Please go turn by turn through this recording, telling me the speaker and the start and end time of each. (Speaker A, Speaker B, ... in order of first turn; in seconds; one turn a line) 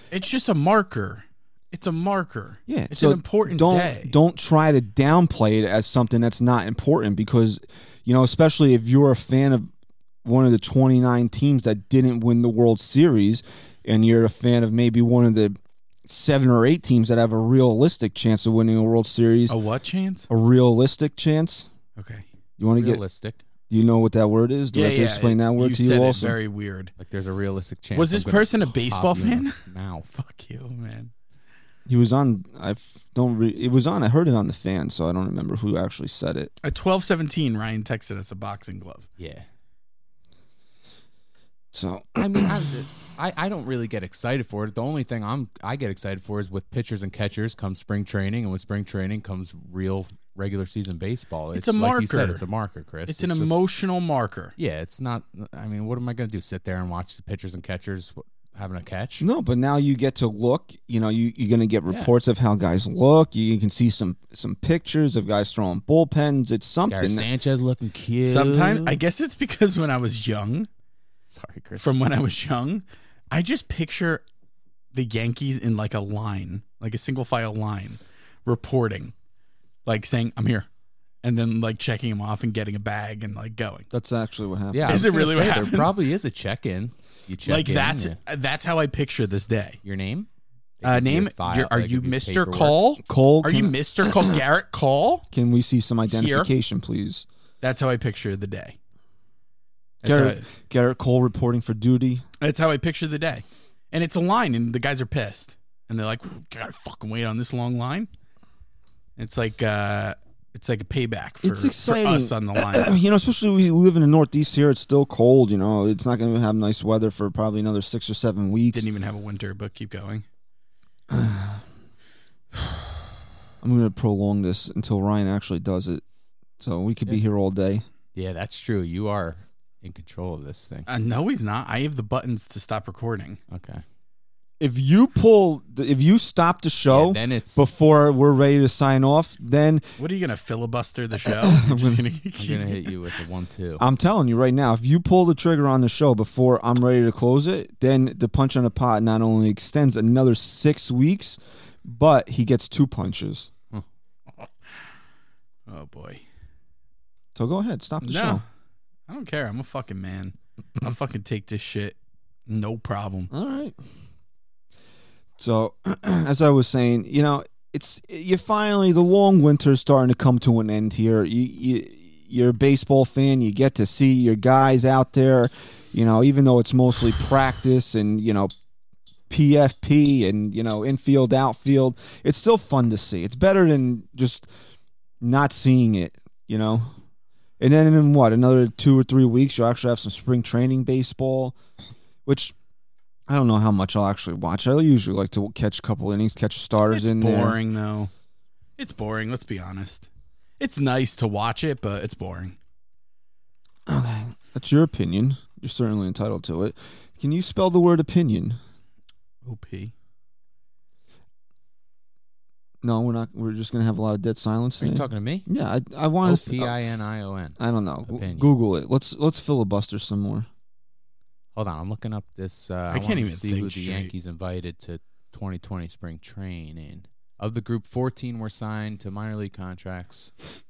Speaker A: 0.1-4.2
Speaker B: 2.7-9.7
Speaker B: 10.2-19.6
Speaker A: 19.5-20.3
Speaker B: 20.3-21.7
Speaker A: 22.0-22.2
Speaker B: 22.6-23.0
Speaker C: 22.8-23.4
Speaker B: 23.7-26.4
Speaker A: 24.7-26.9
Speaker C: 27.0-30.1
Speaker A: 27.9-29.6
Speaker A: 30.1-31.1
Speaker B: 31.9-36.5
Speaker A: 36.6-39.1
Speaker C: 39.2-39.5
Speaker B: 41.7-42.8
Speaker C: 42.2-53.6
Speaker A: 51.5-52.4
Speaker A: 53.1-54.5
Speaker C: 54.6-59.2
Speaker B: 59.2-67.3
Speaker C: 66.9-69.0
Speaker A: 68.2-70.7
Speaker C: 71.3-71.9
Speaker A: 71.8-74.2
Speaker A: 74.9-79.1
Speaker A: 79.8-80.7
Speaker A: 81.2-83.9
Speaker B: 83.9-85.1
Speaker C: 84.7-88.2
Speaker A: 84.9-85.9
Speaker A: 87.5-89.8
Speaker C: 89.8-90.3
Speaker C: 90.8-92.8
Speaker A: 90.8-95.3
Speaker B: 93.0-94.4
Speaker B: 95.3-97.3
Speaker A: 96.1-96.5
Speaker A: 97.6-98.8
Speaker A: 100.0-100.5
Speaker B: 100.0-102.2
Speaker A: 102.4-108.1
Speaker A: 109.2-113.0
Speaker B: 111.4-118.9
Speaker A: 118.7-120.2
Speaker B: 121.1-121.6
Speaker B: 123.6-126.0
Speaker B: 126.6-127.8
Speaker C: 128.2-130.9
Speaker A: 130.9-133.4
Speaker C: 133.5-133.8
Speaker B: 134.6-139.8
Speaker C: 136.8-137.7
Speaker A: 140.0-142.9
Speaker B: 141.2-142.0
Speaker C: 142.3-143.8
Speaker B: 143.8-153.5
Speaker A: 155.7-156.2
Speaker B: 157.3-158.4
Speaker A: 158.0-158.4
Speaker A: 159.1-163.3
Speaker B: 163.3-163.8
Speaker B: 165.4-178.5
Speaker B: 179.3-184.5
Speaker B: 185.2-186.9
Speaker B: 187.6-191.6
Speaker B: 192.2-192.5
Speaker B: 193.3-197.6
Speaker A: 196.9-198.1
Speaker A: 198.8-202.6
Speaker B: 203.9-208.6
Speaker A: 209.4-209.9
Speaker B: 212.8-216.8
Speaker C: 214.8-215.5
Speaker C: 216.2-218.5
Speaker B: 217.6-220.5
Speaker C: 221.5-230.3
Speaker A: 222.9-224.1